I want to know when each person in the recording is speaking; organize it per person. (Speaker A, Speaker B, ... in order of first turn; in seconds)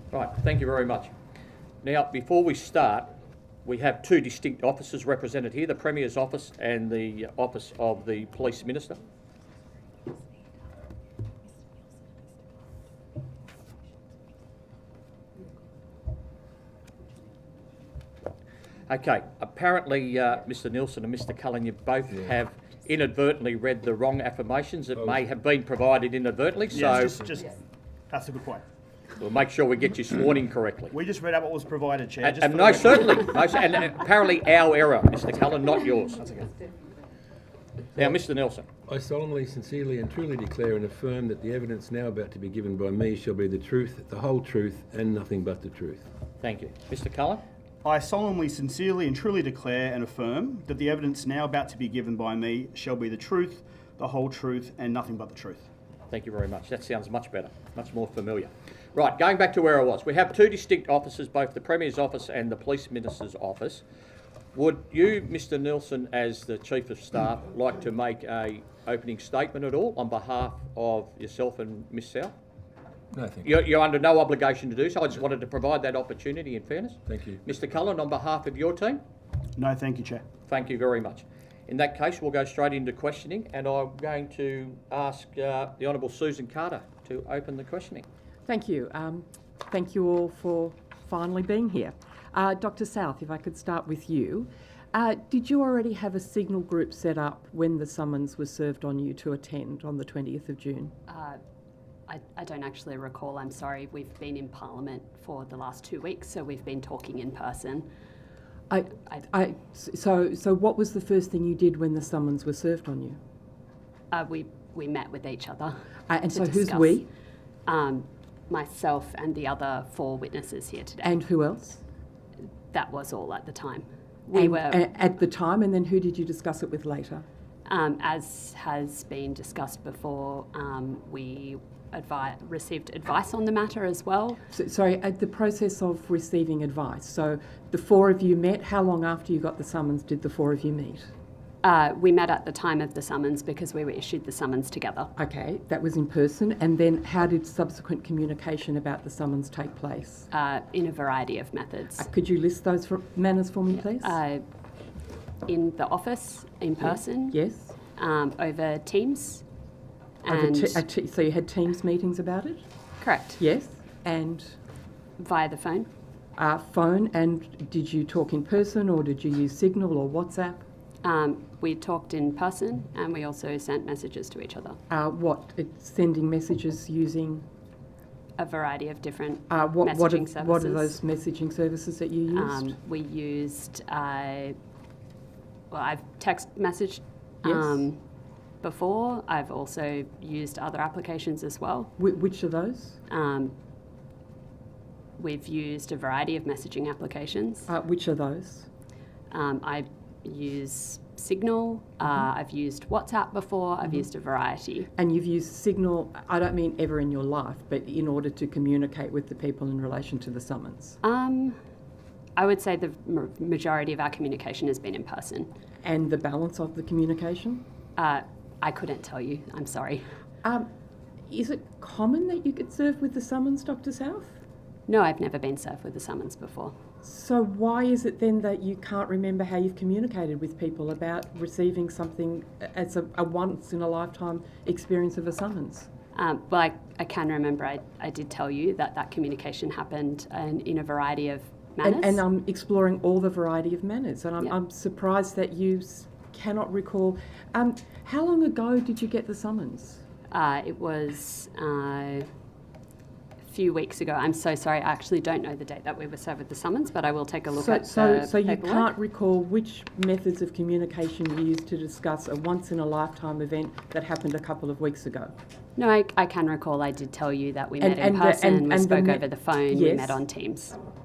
Speaker A: 0.1-1.1, 1.8-3.1, 3.6-9.0, 18.9-27.2, 29.2-30.9, 32.2-36.5, 38.0-38.7, 46.4-47.4, 56.1-63.8, 64.5-72.3, 73.4-79.0, 80.5-88.0
Speaker B: 26.7-27.6, 28.1-28.7, 30.9-33.1, 47.8-55.7, 79.6-80.2
Speaker C: 38.9-46.1, 73.1-73.5, 77.1-77.4
Speaker D: 88.5-100.9, 108.7-113.2, 116.1-117.1, 121.0-121.8, 124.3-127.3, 134.5-141.1, 145.2-150.3, 152.0-154.2, 156.8-157.8, 160.3-162.6, 163.4-164.6, 166.4-170.6, 174.9-177.5, 179.5-182.8, 187.4-187.9, 192.0-193.0, 197.7-198.7, 205.0-211.0, 215.8-217.6, 221.3-224.4, 227.0-235.9, 241.8-250.0, 257.5-265.3, 267.8-270.2
Speaker E: 101.1-101.4, 102.1-107.9, 114.1-115.8, 116.3-117.1, 117.7-121.1, 122.7-124.8, 127.7-134.4, 141.6-145.1, 150.3-152.1, 153.7-154.4, 155.5-157.4, 157.9-159.4, 160.2-160.8, 163.0-163.4, 165.2-165.9, 171.0-174.8, 178.4-181.0, 182.3-184.6, 185.7-188.0, 188.6-191.9, 193.1-193.6, 195.2-197.7, 199.3-204.9, 211.0-211.6, 212.4-215.5, 218.0-220.0, 224.9-226.8, 236.2-242.2, 250.3-252.3, 253.4-258.9, 265.8-270.8